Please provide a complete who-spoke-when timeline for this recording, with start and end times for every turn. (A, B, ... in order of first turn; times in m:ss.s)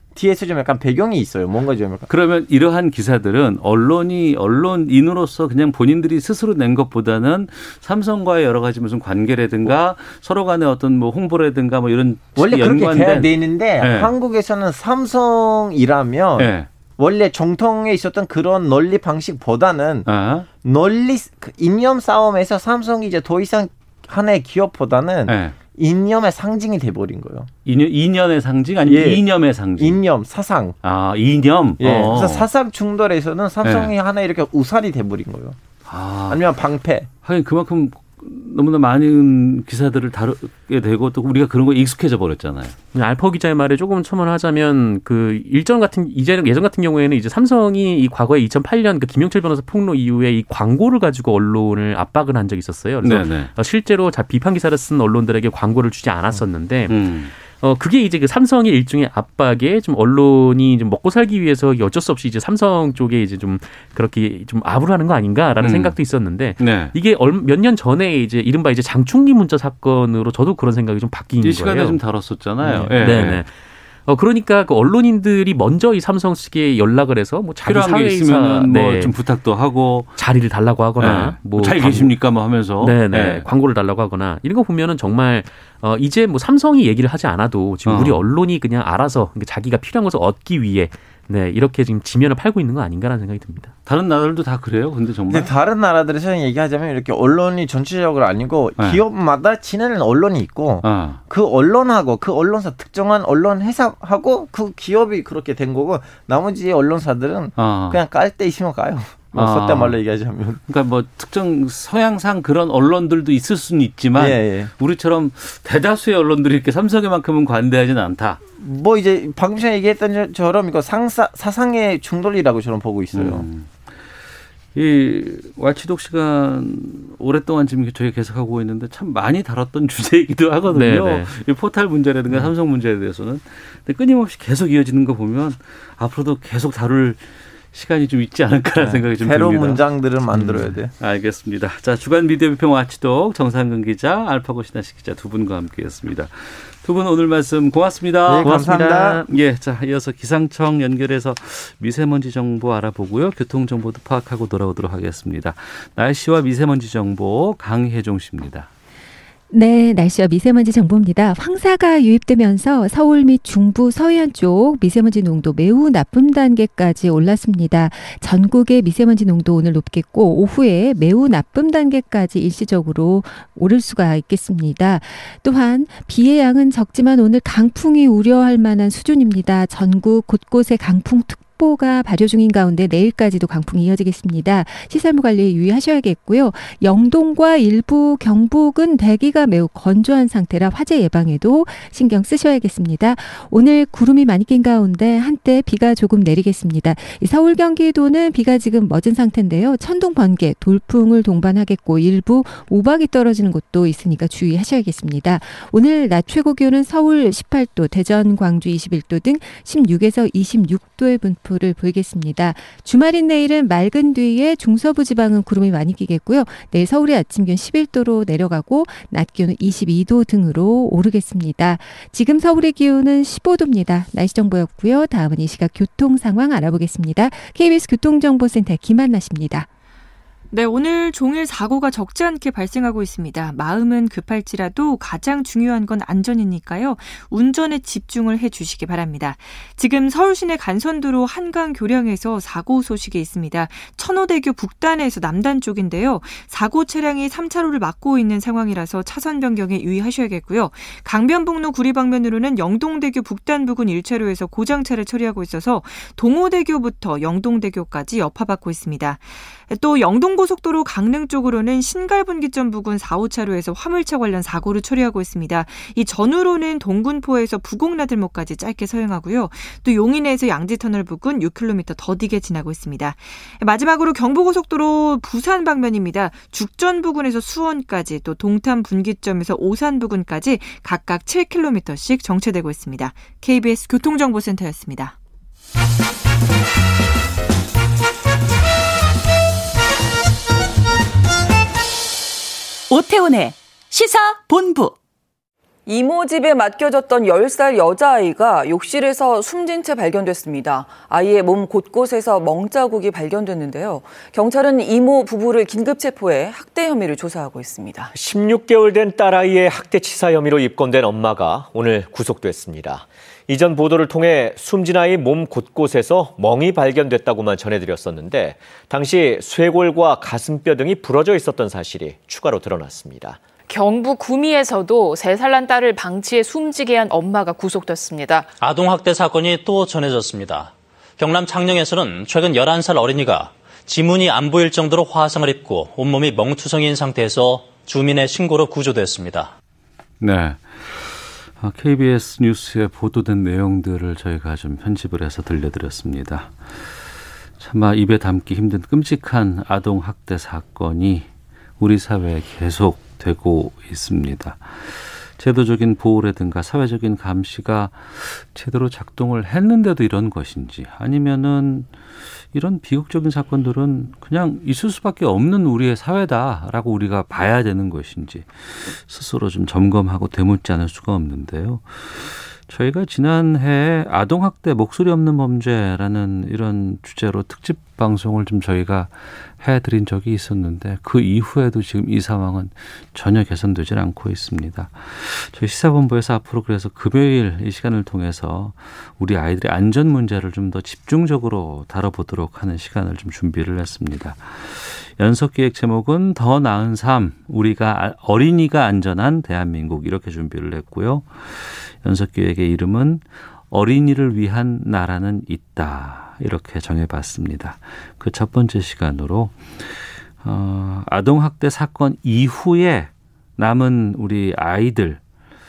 0:00.1-0:02.1 A
0:02.1-0:14.1 B
0:12.4-0:20.1 A
0:16.4-0:16.7 B
0:20.0-0:20.4 B
0:20.6-0:27.5 A
0:25.3-0:25.5 B
0:27.6-0:30.0 B
0:28.8-0:29.2 A
0:29.8-0:30.7 A
0:30.8-0:32.5 B
0:31.8-0:35.6 A
0:33.6-0:33.9 B
0:35.9-0:36.4 B
0:36.3-0:37.1 A
0:37.2-0:42.7 B
0:42.9-1:12.0 C
0:53.0-0:53.5 B
0:56.9-0:57.3 B
1:05.6-1:06.0 B
1:06.6-1:06.9 B
1:11.4-1:13.4 B
1:12.6-1:13.0 A
1:13.0-1:13.5 C
1:14.0-1:19.1 C
1:17.6-1:20.2 B
1:20.2-1:22.2 C
1:21.0-1:23.5 B
1:22.8-1:33.7 C
1:27.8-1:28.2 B
1:33.8-1:35.5 B
1:35.3-1:50.6 A
1:40.8-1:41.2 B
1:47.6-1:48.0 B
1:49.3-1:50.0 B
1:50.7-1:58.4 B
1:54.1-1:54.7 A
1:58.6-2:03.5 A
2:03.1-2:04.2 B
2:04.7-2:38.7 B
2:10.7-2:11.3 C
2:18.8-2:20.9 A
2:28.2-2:29.2 A
2:39.5-3:49.7 D
3:50.5-4:45.2 E
4:52.9-4:54.9 F
4:55.9-5:08.1 G
5:08.1-5:23.4 H
5:23.7-5:28.5 I
5:28.6-5:39.5 J
5:40.2-5:51.3 B
5:51.8-6:01.9 B
6:02.5-6:55.2 B